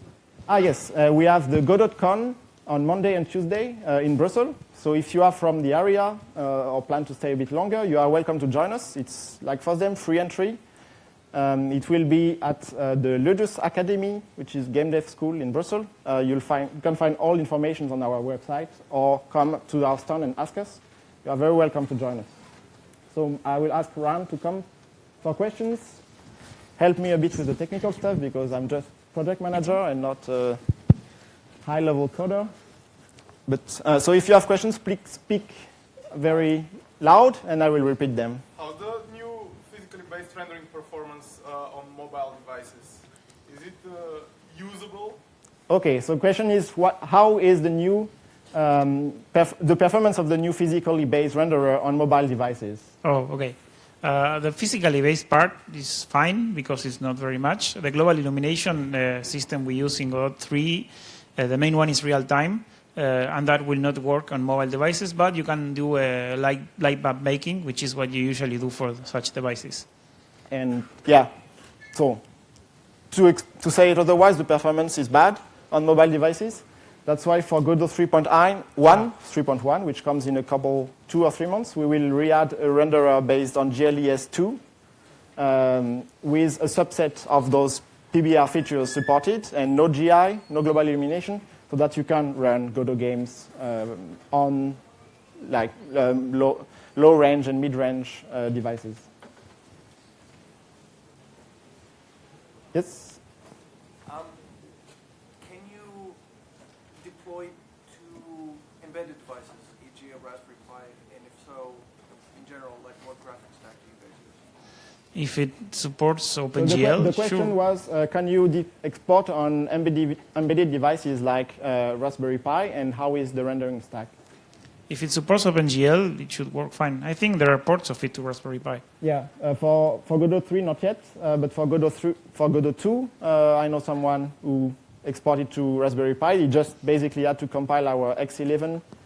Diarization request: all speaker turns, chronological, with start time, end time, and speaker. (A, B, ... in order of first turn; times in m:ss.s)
0:00.5-0:10.6 A
0:11.3-0:22.3 A
0:23.1-0:24.7 A
0:25.2-0:26.0 A
0:26.8-0:30.6 A
0:31.6-0:32.5 A
0:33.5-0:38.4 A
0:38.6-0:45.2 B
0:45.7-0:52.9 A
0:53.0-1:09.8 C
1:10.5-1:11.3 A
1:11.9-1:12.2 A
1:13.1-1:24.6 A
1:25.4-1:34.8 A
1:35.4-1:39.1 A
1:42.7-1:43.2 A
1:45.4-1:46.2 D
1:47.0-1:54.3 D
1:55.1-1:57.5 C
1:56.6-2:04.1 A
2:04.9-2:08.8 C
2:09.0-2:18.8 A